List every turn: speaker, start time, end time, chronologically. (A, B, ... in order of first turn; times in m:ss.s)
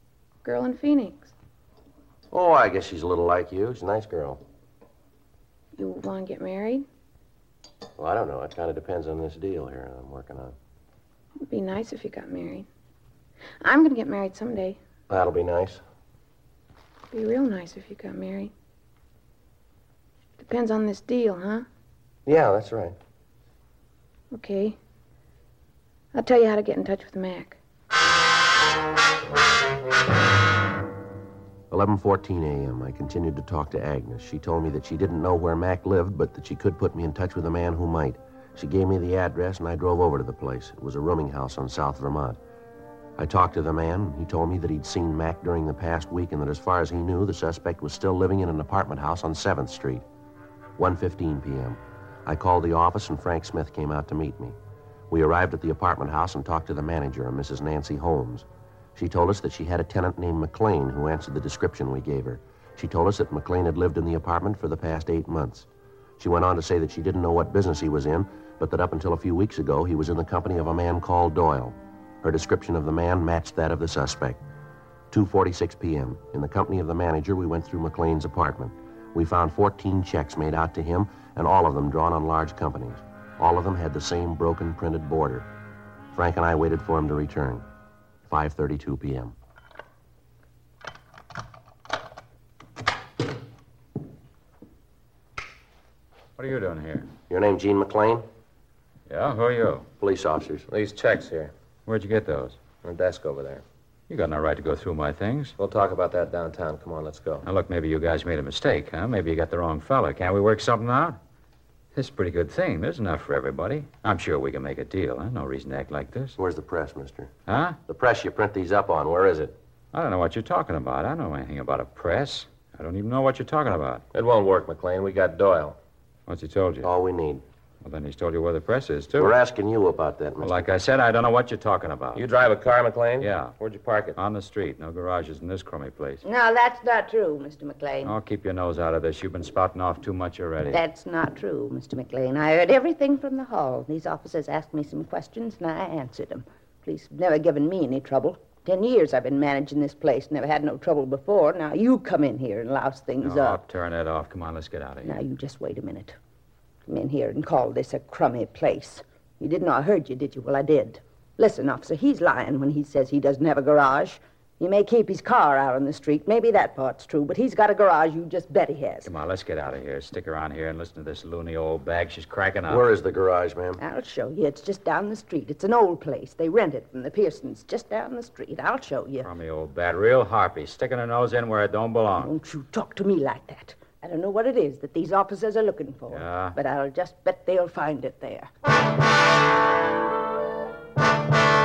0:00.4-0:01.3 A
0:02.3-0:04.4 B
0:05.8-0:06.8 A
0:08.0-0:10.5 B
0:11.5-0:12.7 A
0:13.6-0:14.8 A
0:15.1-0:15.8 B
0:17.1-0:18.5 A
0:20.4-0:21.6 A
0:22.2-0:23.0 B
0:24.3-0:24.8 A
0:26.1-0:27.6 A
0:31.7-0:42.4 B
0:43.2-0:50.0 B
0:50.8-0:54.6 B
0:55.1-1:05.7 B
1:06.2-1:14.4 B
1:15.1-1:25.5 B
1:26.1-1:27.6 B
1:28.3-1:29.3 B
1:36.4-1:37.1 C
1:37.3-1:38.3 B
1:39.1-1:39.9 C
1:40.0-1:40.7 B
1:40.7-1:41.5 D
1:41.8-1:42.6 C
1:42.8-1:43.6 D
1:44.1-1:45.6 C
1:45.6-1:47.5 D
1:47.4-1:51.2 C
1:51.9-1:56.4 C
1:56.4-1:59.5 B
1:57.5-1:57.8 C
1:59.9-2:04.0 C
2:04.1-2:05.8 D
2:06.3-2:06.9 C
2:06.8-2:07.4 B
2:07.8-2:09.4 C
2:09.2-2:10.7 B
2:10.4-2:12.2 C
2:12.1-2:14.2 D
2:13.2-2:13.5 C
2:14.2-2:16.2 C
2:16.2-2:18.1 E
2:18.0-2:20.8 C
2:20.7-2:33.6 E
2:33.2-2:35.2 C
2:35.0-2:36.2 E
2:36.9-2:49.1 E
2:49.0-2:52.8 C
2:52.7-2:53.8 B
2:53.8-2:59.3 E
2:59.2-3:02.3 C
3:02.2-3:08.5 E
3:06.1-3:06.6 C